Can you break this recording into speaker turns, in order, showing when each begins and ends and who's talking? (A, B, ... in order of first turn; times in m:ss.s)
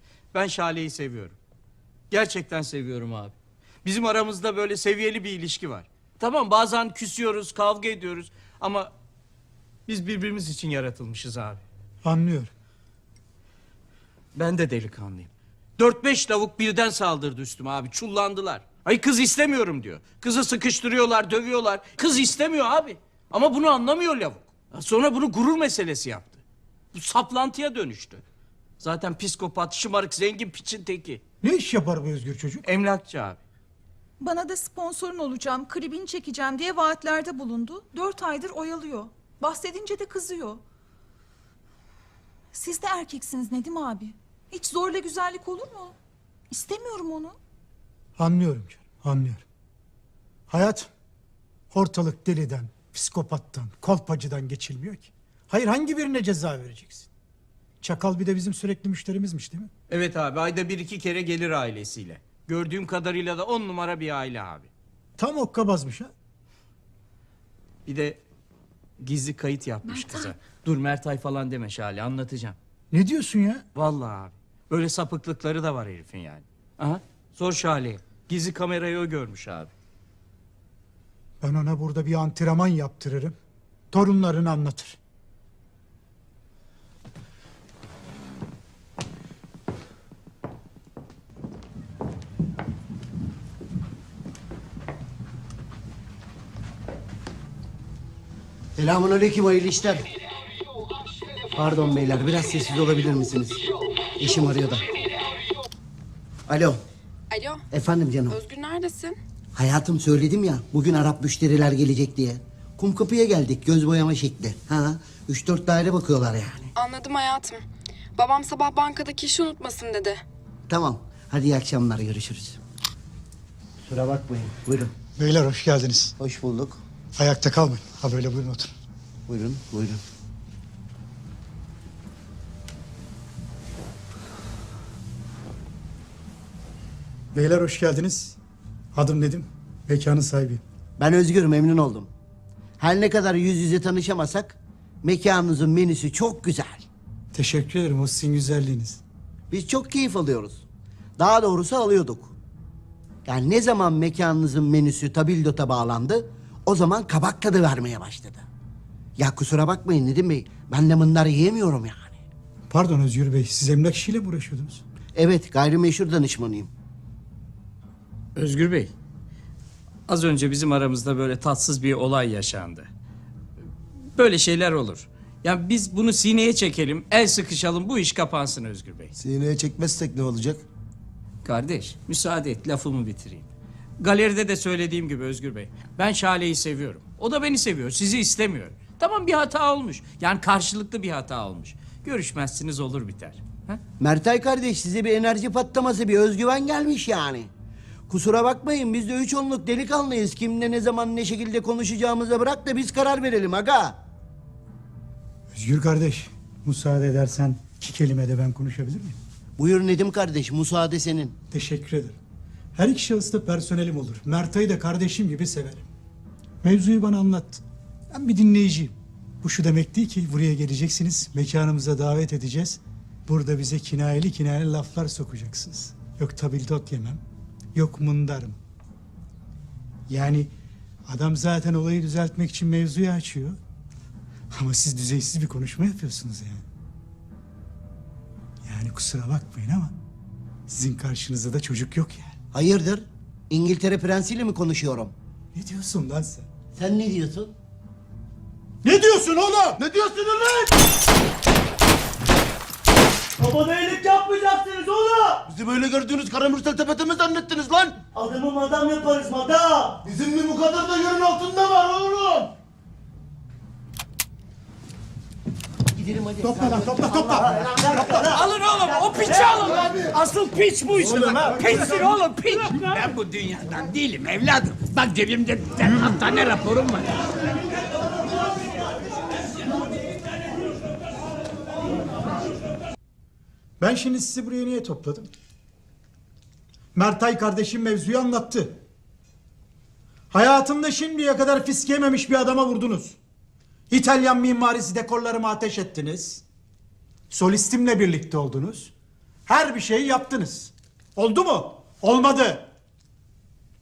0:00.3-0:01.4 A
0:02.1-0:08.9 A
0:09.9-0:11.6 A
0:12.0-0:12.5 B
0:14.3-0:26.4 A
0:26.9-0:28.2 A
0:28.8-0:31.2 A
0:31.4-0:32.6 B
0:32.6-0:33.4 A
0:34.2-0:40.6 C
0:42.5-0:45.9 C
0:46.5-0:47.4 C
0:48.2-0:49.4 B
0:50.5-0:50.9 B
0:51.7-0:57.1 B
0:57.8-0:59.7 B
0:59.9-1:04.7 A
1:05.2-1:06.1 B
1:07.8-1:08.2 A
1:09.0-1:12.6 A
1:12.9-1:13.6 B
1:13.7-1:19.7 A
1:21.4-1:23.4 B
1:23.9-1:25.0 B
1:38.8-1:40.0 D
1:41.5-1:43.6 D
1:44.2-1:44.9 D
1:46.5-1:46.8 D
1:47.3-1:47.6 E
1:47.7-1:48.4 D
1:48.3-1:49.2 E
1:49.5-1:56.7 D
1:56.8-1:57.6 E
1:58.2-2:00.2 E
2:00.7-2:02.6 D
2:03.8-2:04.9 D
2:05.2-2:06.1 B
2:06.2-2:06.8 D
2:07.2-2:08.7 B
2:09.3-2:10.0 D
2:17.3-2:18.4 B
2:18.9-2:20.6 B
2:21.0-2:22.1 D
2:22.8-2:26.8 D
2:27.3-2:29.0 B
2:29.5-2:30.6 D
2:31.2-2:32.3 D
2:33.2-2:38.4 D
2:39.2-2:42.2 D
2:42.7-2:44.8 B
2:45.1-2:46.7 D
2:48.4-2:48.9 A
2:50.1-2:52.9 A
2:54.2-2:59.1 A
2:59.2-3:00.6 F
3:01.4-3:03.5 A
3:04.0-3:13.8 A
3:14.0-3:17.5 D
3:18.1-3:24.0 D
3:25.5-3:29.2 B
3:29.6-3:31.3 D
3:31.5-3:32.2 B
3:32.7-3:35.9 B
3:36.6-3:47.2 B
3:47.7-3:48.6 B
3:50.1-3:50.5 B
3:51.1-3:53.6 B
3:54.5-3:56.6 B
3:58.6-3:59.9 B
4:00.7-4:02.4 B
4:02.5-4:05.1 D
4:05.5-4:06.5 B
4:06.8-4:07.5 D
4:08.8-4:09.8 B
4:09.8-4:10.7 F
4:13.4-4:15.6 D
4:15.5-4:18.0 F
4:18.0-4:20.1 D
4:20.0-4:22.5 F
4:25.9-4:28.5 D
4:26.4-4:28.3 B
4:28.3-4:37.1 A
4:31.4-4:31.8 B
4:43.8-4:45.3 B
4:46.9-4:48.8 B
4:50.3-4:53.2 B
4:53.9-4:56.4 B
4:57.3-4:58.9 B
4:59.5-5:02.7 B